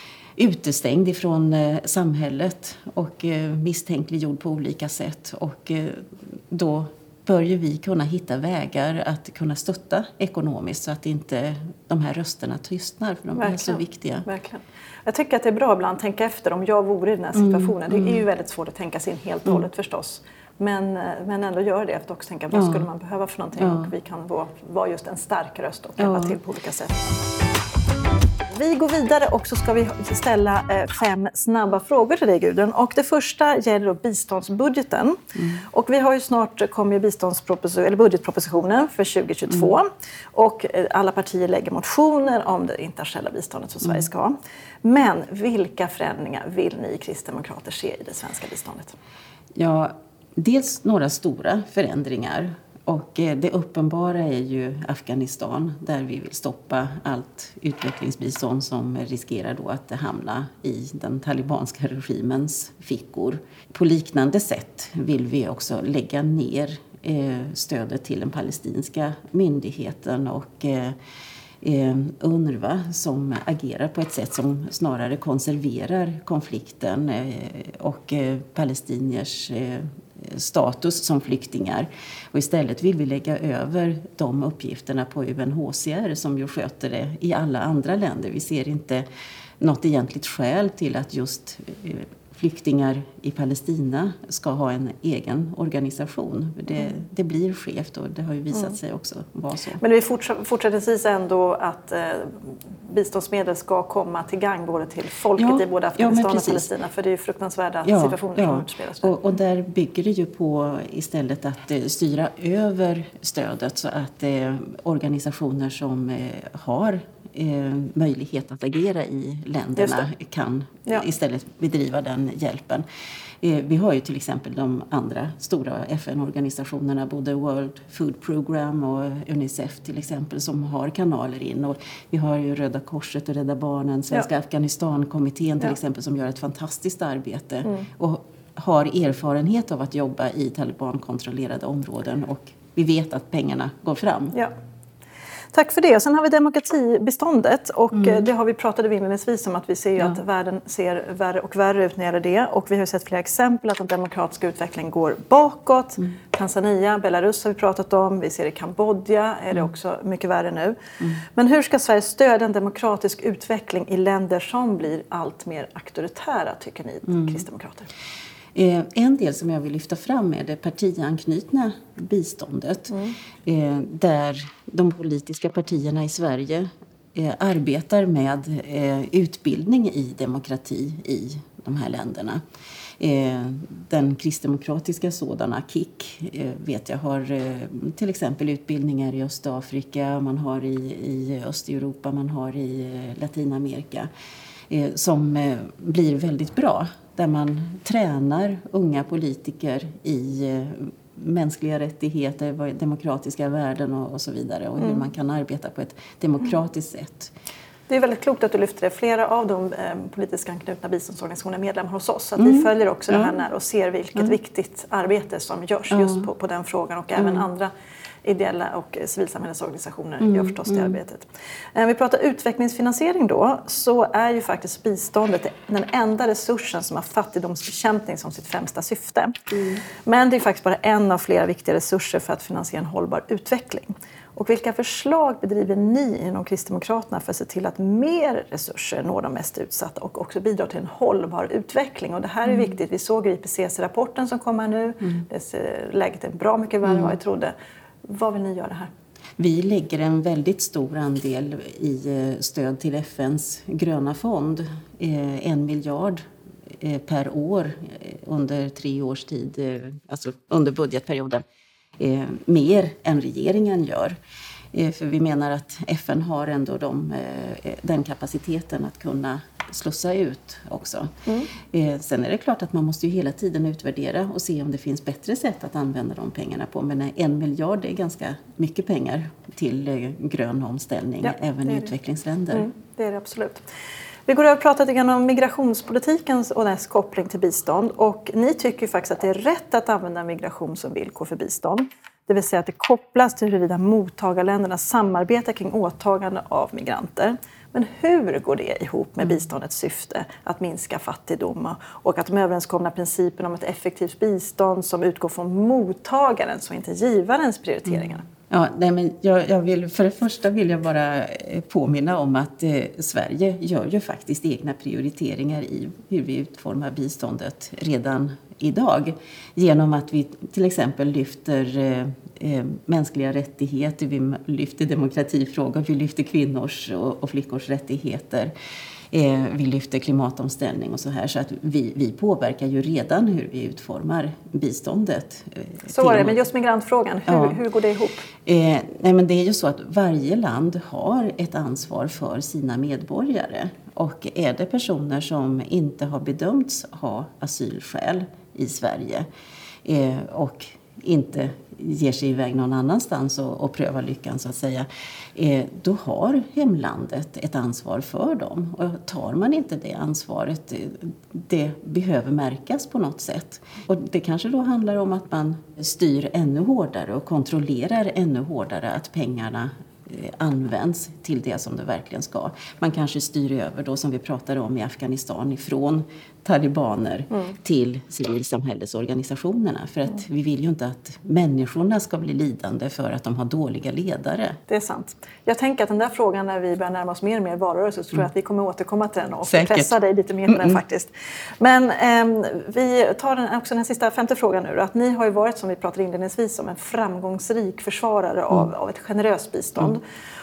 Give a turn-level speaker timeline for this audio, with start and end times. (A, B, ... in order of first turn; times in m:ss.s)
0:00.4-0:14.2 A
0:13.4-0:27.0 B
0:17.3-0:18.2 A
0:22.5-0:22.8 A
0:23.6-0:23.9 A
0:26.0-0:26.4 A
0:28.5-0:48.9 B
0:49.6-1:11.0 A
1:11.6-1:29.0 A
1:29.6-1:39.8 A
1:39.8-1:49.2 B
1:45.4-1:46.7 A
1:47.8-2:02.8 A
1:59.8-2:00.1 B
2:03.4-2:24.4 A
2:25.5-2:40.8 B
2:28.0-2:28.2 A
2:41.3-2:47.9 B
2:47.0-2:47.4 A
2:48.5-2:52.9 A
2:52.9-2:53.1 B
2:53.4-3:02.4 A
3:03.0-3:14.1 A
3:14.7-3:27.3 A
3:27.9-3:37.7 B
3:32.4-3:33.3 A
3:35.9-3:36.3 A
3:37.2-3:37.4 A
3:38.2-3:49.4 B
3:40.2-3:41.0 A
3:50.0-4:07.5 B
4:02.4-4:02.7 A
4:06.8-4:07.1 A
4:08.0-4:08.9 B
4:09.4-4:16.2 A
4:16.8-4:21.4 A
4:22.0-4:24.1 A
4:24.7-4:31.1 A
4:31.3-4:31.5 B
4:31.6-4:42.7 A
4:41.2-4:41.9 B
4:42.5-4:43.6 B
4:44.3-5:08.3 B
5:08.5-5:28.5 A
5:29.1-5:36.4 A
5:35.9-5:38.3 B
5:37.3-5:37.6 A
5:38.4-5:49.2 A
5:49.8-6:24.6 A
6:24.7-6:40.0 B
6:29.4-6:29.9 A
6:30.5-6:30.8 A